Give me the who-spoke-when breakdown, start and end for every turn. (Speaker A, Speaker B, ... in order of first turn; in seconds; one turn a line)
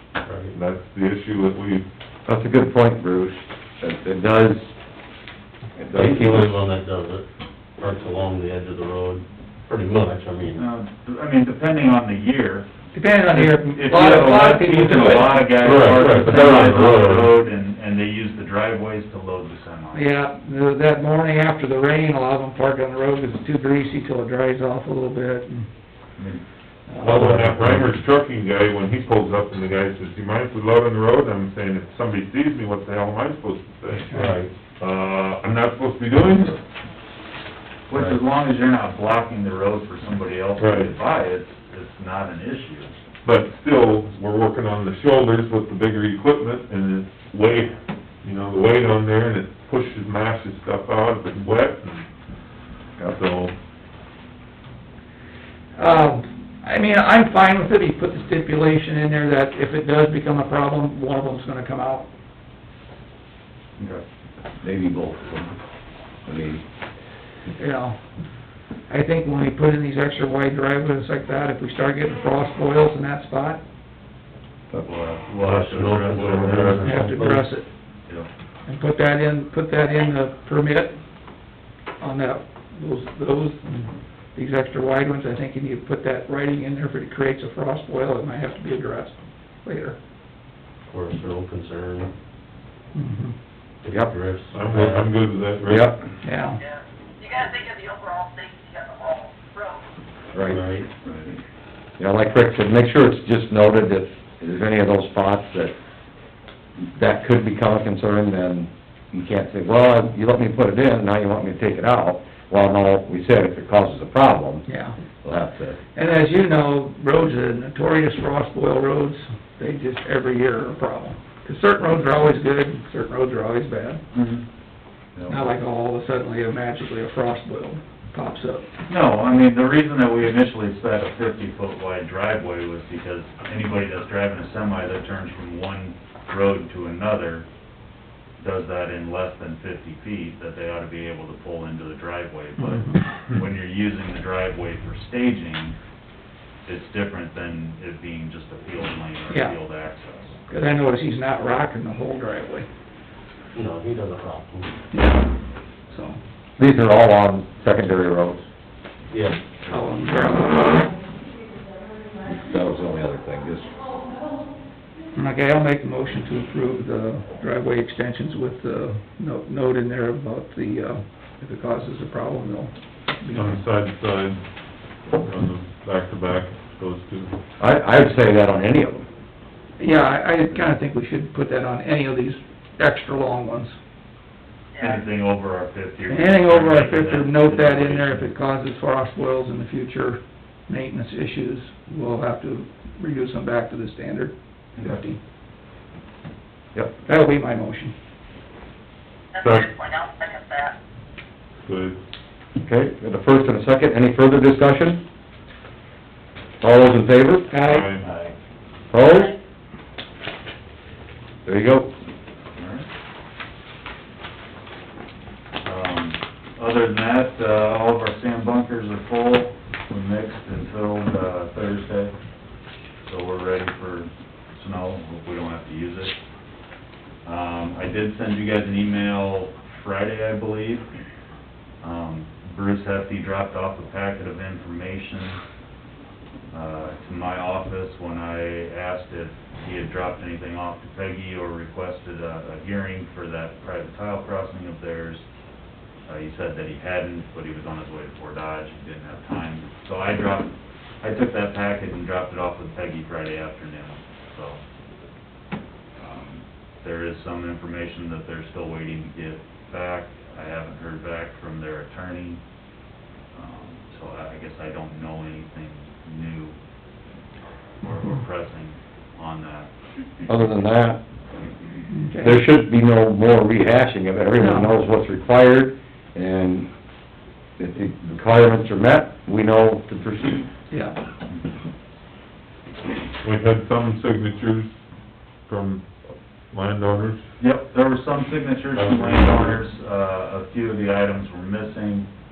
Speaker A: 0.2-0.6
Speaker B: 0.5-1.9
Speaker C: 2.3-4.7
Speaker C: 5.8-6.5
Speaker A: 5.9-10.6
Speaker D: 10.6-12.7
Speaker E: 12.9-15.6
Speaker D: 13.3-20.1
Speaker A: 15.5-17.4
Speaker E: 19.9-25.7
Speaker E: 26.9-27.3
Speaker B: 27.0-36.6
Speaker A: 27.1-27.8
Speaker A: 34.2-34.5
Speaker D: 37.9-42.9
Speaker A: 37.9-38.2
Speaker B: 40.6-40.9
Speaker B: 43.2-52.1
Speaker B: 53.0-53.5
Speaker E: 55.8-62.1
Speaker C: 64.6-65.6
Speaker C: 66.2-66.6
Speaker E: 67.5-68.0
Speaker E: 68.9-73.6
Speaker D: 74.8-77.1
Speaker A: 75.4-77.6
Speaker E: 76.8-77.7
Speaker E: 78.7-81.0
Speaker E: 82.0-90.0
Speaker A: 90.9-92.1
Speaker E: 92.9-93.3
Speaker A: 93.8-95.0
Speaker B: 94.5-96.0
Speaker C: 95.7-96.0
Speaker E: 96.2-96.6
Speaker F: 96.6-99.8
Speaker C: 100.3-100.6
Speaker A: 100.4-100.9
Speaker D: 101.0-101.3
Speaker C: 102.0-105.7
Speaker C: 106.8-114.7
Speaker E: 114.7-115.0
Speaker C: 115.2-115.8
Speaker E: 115.9-124.0
Speaker D: 124.1-124.5
Speaker D: 125.1-125.5
Speaker E: 125.3-128.7
Speaker D: 128.9-137.4
Speaker D: 138.4-145.8
Speaker E: 142.6-143.0
Speaker D: 146.7-150.4
Speaker E: 149.3-149.6
Speaker E: 150.5-152.7
Speaker A: 153.5-154.7
Speaker E: 154.9-155.3
Speaker E: 155.9-156.2
Speaker C: 156.6-158.4
Speaker A: 159.1-159.4
Speaker E: 159.6-160.9
Speaker C: 162.2-163.8
Speaker E: 165.1-173.6
Speaker B: 173.3-174.4
Speaker B: 175.2-177.4
Speaker C: 177.6-179.1
Speaker E: 179.8-183.7
Speaker F: 184.8-185.1
Speaker D: 184.8-188.3
Speaker E: 186.1-195.2
Speaker D: 194.8-195.0
Speaker E: 197.0-197.9
Speaker F: 199.3-200.8
Speaker B: 199.4-199.7
Speaker B: 201.6-202.0
Speaker C: 202.6-205.0
Speaker C: 206.6-207.5
Speaker E: 207.5-207.9
Speaker B: 207.6-208.0
Speaker D: 208.0-208.3
Speaker C: 208.9-209.3
Speaker C: 211.4-211.9
Speaker D: 212.6-212.9
Speaker D: 215.6-222.1
Speaker D: 223.0-226.2
Speaker D: 227.2-230.9
Speaker D: 231.8-235.4
Speaker D: 236.5-245.2
Speaker D: 246.1-254.6
Speaker D: 256.0-262.4
Speaker D: 263.3-266.6
Speaker D: 267.8-269.7
Speaker C: 270.3-271.0
Speaker E: 271.9-272.5
Speaker C: 272.2-276.7
Speaker E: 274.4-274.8
Speaker C: 277.6-280.5
Speaker E: 280.7-281.0
Speaker B: 283.2-284.8
Speaker B: 285.5-285.9
Speaker B: 286.5-287.2
Speaker D: 287.4-292.1
Speaker B: 288.7-289.6